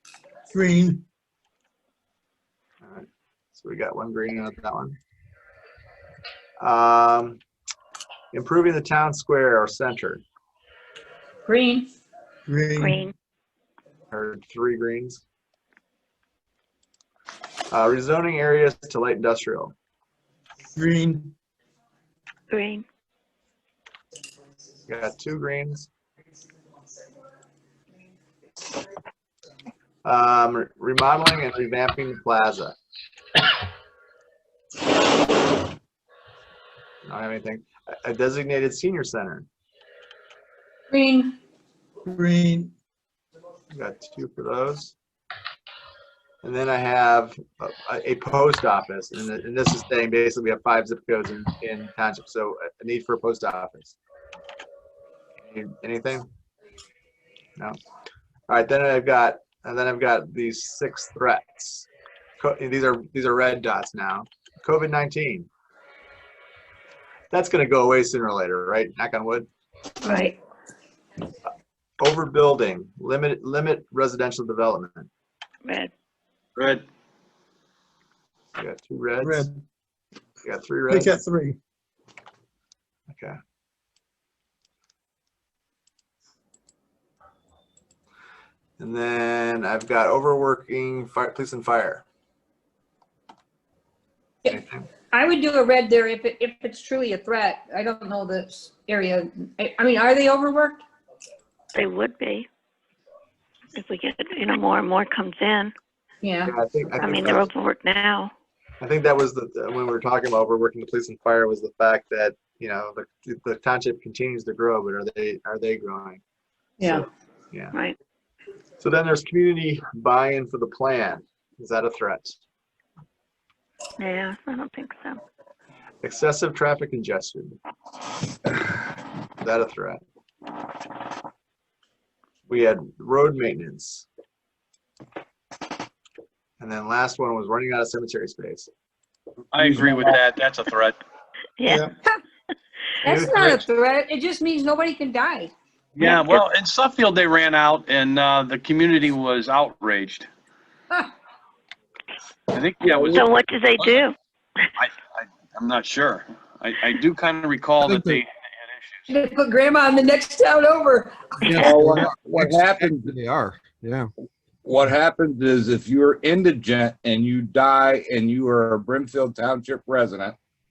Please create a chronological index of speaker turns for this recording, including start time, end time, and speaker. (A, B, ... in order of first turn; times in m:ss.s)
0:00.6-0:01.0 A
0:02.8-0:05.0 B
0:06.6-0:07.4 B
0:08.3-0:10.2 B
0:11.4-0:11.9 C
0:12.5-0:12.9 A
0:12.8-0:13.1 D
0:14.1-0:15.2 B
0:17.7-0:19.7 B
0:20.8-0:21.3 A
0:22.5-0:22.8 D
0:24.9-0:25.9 B
0:30.0-0:32.7 B
0:37.0-0:39.5 B
0:40.9-0:41.4 C
0:42.1-0:42.7 A
0:43.7-0:44.9 B
0:46.4-0:54.0 B
0:55.4-0:56.2 B
0:58.5-1:01.9 B
1:02.4-1:05.5 B
1:07.3-1:09.5 B
1:10.0-1:10.3 D
1:12.0-1:15.1 B
1:15.6-1:15.9 D
1:16.6-1:16.8 E
1:18.6-1:19.5 B
1:19.3-1:19.5 A
1:20.4-1:21.2 B
1:20.9-1:21.6 A
1:23.1-1:23.4 B
1:28.8-1:32.0 B
1:34.5-1:34.8 B
1:35.1-1:40.8 C
1:41.7-1:42.5 D
1:43.7-1:45.7 D
1:46.2-1:46.5 C
1:46.4-1:47.5 B
1:47.0-1:48.3 D
1:48.8-1:56.2 B
1:56.8-1:57.0 C
1:56.8-1:57.7 B
1:58.8-2:02.4 B
2:04.0-2:05.2 D
2:06.0-2:07.6 B
2:09.4-2:10.0 B
2:12.5-2:14.0 B
2:16.6-2:18.7 B
2:19.5-2:21.0 E
2:21.6-2:21.8 D
2:21.6-2:22.2 C
2:23.0-2:25.5 C
2:23.0-2:23.6 B
2:26.0-2:30.3 E
2:26.0-2:26.4 D
2:32.5-2:34.0 E
2:33.0-2:34.1 D
2:34.8-2:39.0 E
2:37.8-2:38.2 F
2:39.1-2:41.4 C
2:41.4-2:44.1 F
2:41.5-2:43.2 G
2:44.6-2:50.4 G